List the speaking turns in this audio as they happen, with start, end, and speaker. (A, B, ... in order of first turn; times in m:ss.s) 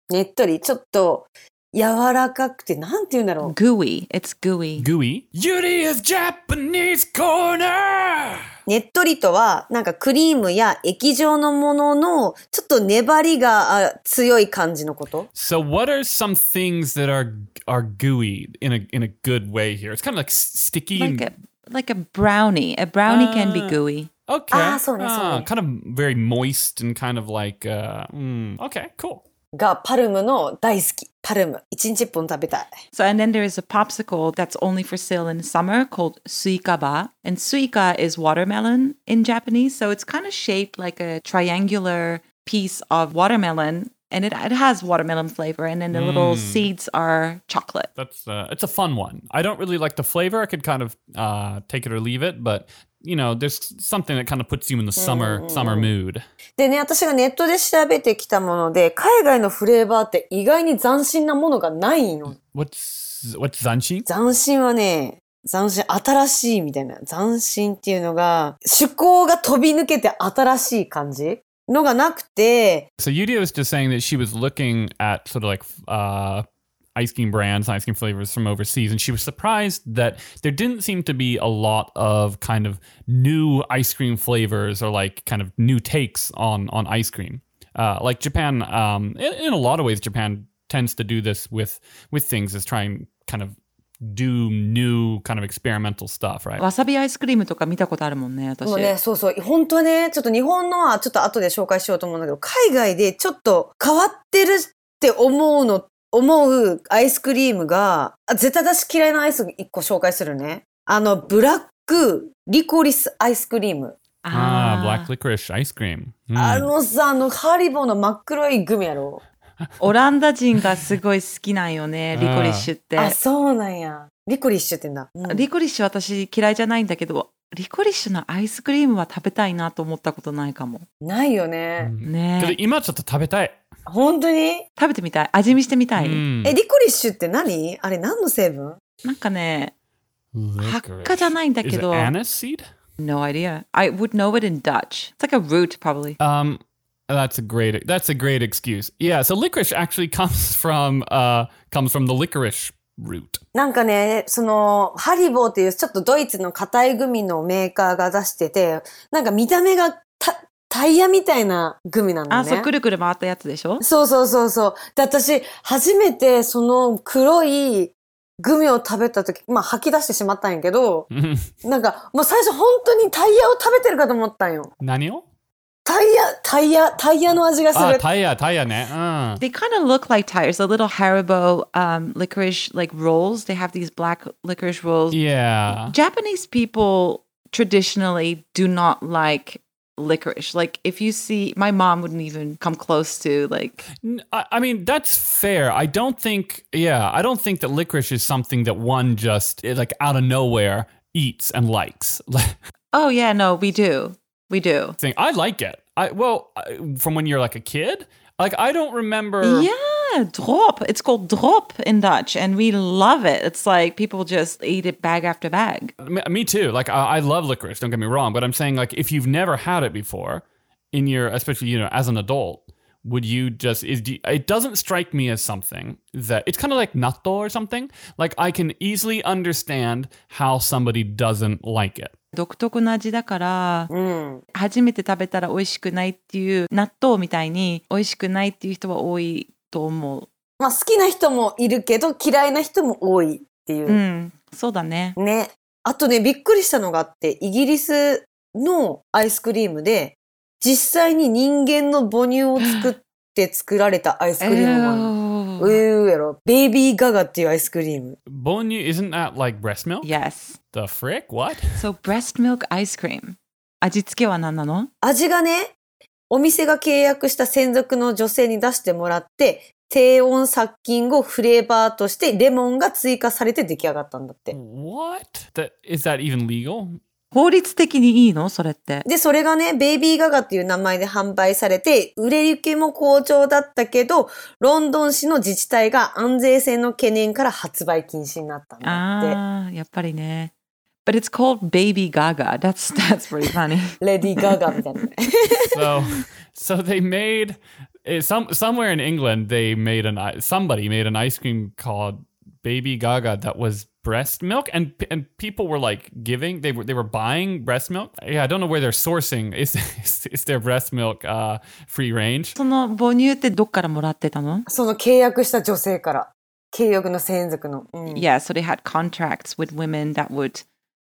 0:00.1-0:03.6 A
0:03.4-0:04.9 B
0:04.8-0:08.4 C
0:08.7-0:15.3 A
0:15.4-0:21.3 C
0:21.0-0:24.1 B
0:23.1-0:29.2 C
0:24.5-0:25.5 A
0:29.6-0:32.7 A
0:32.9-0:47.9 B
0:45.9-0:46.7 C
0:48.0-0:56.2 C
0:55.0-0:55.9 A
0:56.6-1:02.4 A
1:02.4-1:04.1 C
1:04.1-1:12.9 A
1:13.0-1:16.4 C
1:17.0-1:36.6 C
1:36.6-1:38.9 B
1:38.6-1:54.0 A
1:54.2-1:55.1 B
1:54.3-1:56.7 C
1:56.4-1:59.2 A
1:59.8-2:03.2 B
2:02.1-2:02.7 C
2:03.0-2:05.5 A
2:05.3-2:10.8 B
2:11.0-2:11.9 A
2:11.8-2:13.6 C
2:12.0-2:12.6 B
2:13.9-2:14.7 A
2:14.8-2:16.2 B
2:16.0-2:16.6 C
2:16.4-2:18.8 A
2:19.0-2:19.7 B
2:20.3-2:22.7 C
2:20.6-2:22.1 B
2:23.0-2:26.2 B
2:26.2-2:33.4 C
2:33.6-2:42.7 A
2:42.3-2:43.8 B
2:43.8-2:51.1 A
2:51.1-2:51.5 C
2:51.6-2:54.7 A
2:54.8-2:55.2 C
2:55.8-2:58.0 A
2:57.7-2:59.4 C
2:59.4-3:05.2 B
3:05.1-3:06.0 C
3:05.7-3:13.9 B
3:14.0-3:22.6 C
3:22.9-3:25.0 B
3:25.0-3:29.7 C
3:29.4-3:35.9 B
3:36.0-3:52.1 C
3:52.3-3:53.9 B
3:53.9-3:54.4 A
3:54.5-4:00.3 B
4:00.6-4:04.0 A
4:03.9-4:05.2 B
4:05.2-4:18.2 A
4:12.6-4:12.9 B
4:14.4-4:15.8 B
4:18.3-4:20.1 C
4:20.0-4:20.6 B
4:20.7-4:21.7 C
4:21.7-4:24.9 B
4:25.0-4:25.7 A
4:26.3-4:34.6 A
4:34.5-4:37.0 C
4:37.3-4:39.1 B
4:39.1-4:49.4 A
4:48.8-4:50.5 B
4:51.0-4:54.0 B
4:54.0-4:55.9 A
4:55.7-5:12.6 C
5:12.6-5:14.7 B
5:14.7-5:18.2 A
5:18.1-5:20.6 B